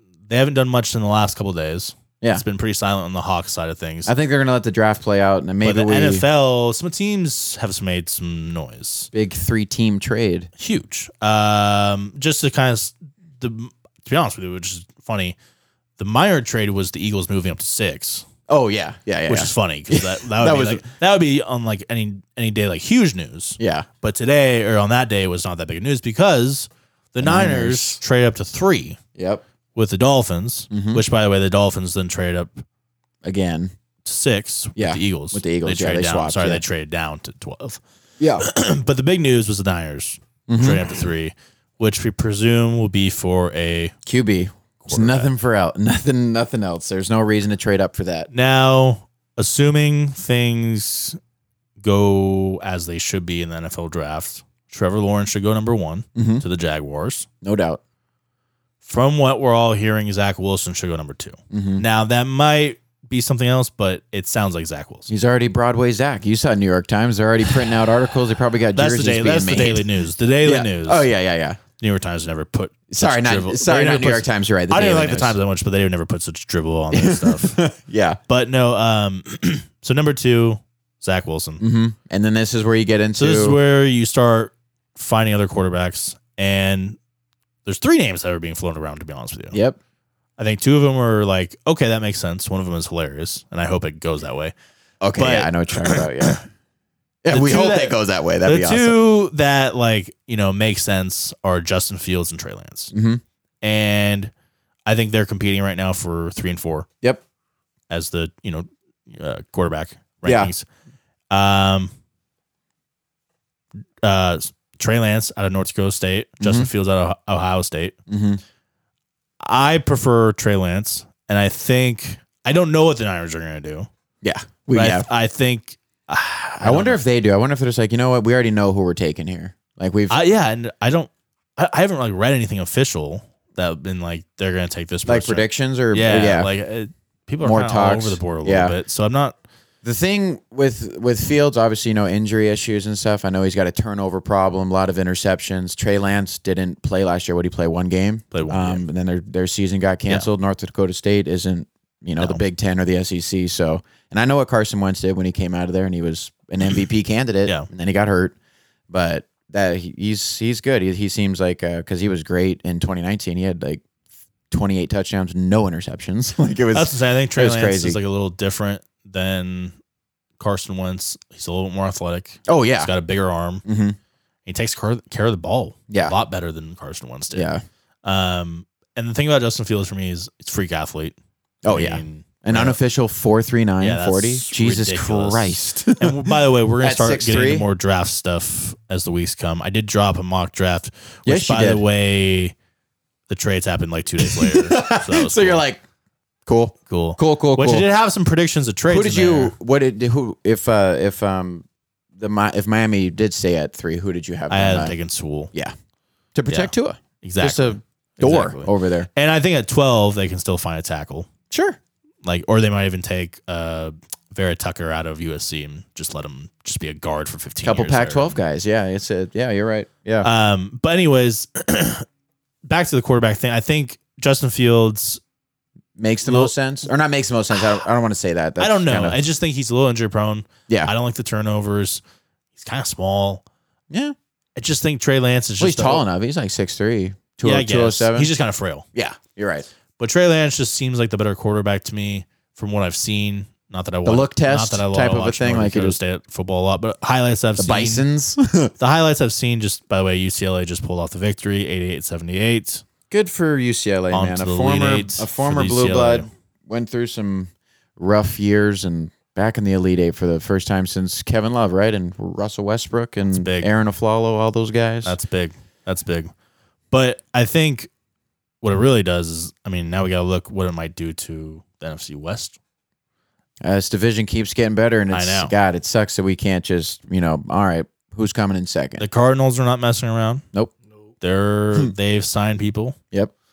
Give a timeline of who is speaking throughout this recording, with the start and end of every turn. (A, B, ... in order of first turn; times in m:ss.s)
0:00.3-0:04.1 A
0:04.1-0:06.2 B
0:05.6-0:09.1 A
0:09.1-0:10.5 B
0:10.6-0:15.4 A
0:16.0-0:18.3 A
0:18.5-0:20.9 B
0:19.3-0:29.0 A
0:23.6-0:23.9 B
0:27.2-0:28.0 B
0:29.2-0:29.4 B
0:29.8-0:32.6 A
0:30.7-0:31.0 B
0:33.2-0:33.7 B
0:34.0-0:37.8 A
0:34.8-0:36.6 B
0:38.2-0:38.4 B
0:38.4-0:44.0 A
0:40.5-0:41.0 B
0:44.1-0:48.3 B
0:44.8-0:45.3 A
0:48.3-0:51.2 A
0:51.8-0:57.3 A
0:56.2-0:56.4 B
0:57.4-0:57.8 B
0:58.8-1:05.1 A
1:01.5-1:01.8 B
1:05.1-1:09.8 B
1:08.8-1:11.1 A
1:10.4-1:11.6 B
1:11.8-1:17.6 A
1:12.9-1:15.4 B
1:16.9-1:18.2 B
1:18.3-1:21.6 A
1:21.6-1:23.6 B
1:23.2-1:27.0 A
1:27.7-1:29.6 A
1:29.5-1:29.8 B
1:30.4-1:34.5 A
1:35.0-1:36.4 B
1:35.2-1:36.4 A
1:37.2-1:39.0 B
1:37.3-1:42.9 A
1:42.9-1:43.2 B
1:43.6-1:44.3 A
1:44.9-1:46.9 A
1:47.9-1:50.6 A
1:50.2-1:50.5 B
1:51.3-1:51.9 A
1:54.0-1:58.0 A
1:56.4-1:56.7 B
1:58.1-1:58.4 B
1:59.4-2:03.9 A
2:04.2-2:05.1 B
2:04.7-2:07.0 A
2:06.6-2:10.2 B
2:10.1-2:19.4 A
2:15.1-2:16.5 B
2:17.4-2:18.8 B
2:19.8-2:38.4 B
2:28.3-2:28.8 A
2:38.9-2:43.8 B
2:44.5-2:48.0 B
2:46.7-2:49.8 A
2:50.4-2:53.6 A
2:52.5-2:52.9 B
2:53.6-2:54.0 B
2:54.5-2:57.5 A
2:55.9-2:56.2 B
2:57.3-2:57.6 B
2:58.0-3:01.2 A
3:01.6-3:07.7 B
3:01.7-3:02.8 A
3:03.8-3:12.5 A
3:11.3-3:11.8 B
3:13.3-3:15.6 A
3:14.2-3:15.8 B
3:16.5-3:17.9 B
3:16.9-3:19.5 A
3:18.9-3:21.6 B
3:22.2-3:25.0 B
3:24.5-3:25.5 A
3:26.4-3:29.1 B
3:26.5-3:31.3 A
3:31.5-3:31.8 B
3:32.2-3:38.4 A
3:37.6-3:40.3 B
3:40.2-3:42.1 A
3:42.6-3:45.2 A
3:46.0-3:49.2 B
3:46.2-3:46.5 A
3:48.6-3:52.0 A
3:52.6-3:53.4 A
3:54.6-3:56.0 A
3:55.6-3:58.3 B
3:57.4-3:58.9 A
3:59.0-3:59.7 B
4:00.0-4:08.1 A
4:04.0-4:06.0 B
4:07.6-4:08.7 B
4:08.8-4:12.8 A
4:13.1-4:25.2 B
4:14.1-4:16.3 A
4:23.3-4:23.7 A
4:25.0-4:26.3 A
4:26.9-4:27.9 A
4:28.6-4:32.6 A
4:33.6-4:39.0 B
4:35.1-4:35.5 A
4:39.0-4:40.4 A
4:41.2-4:43.0 A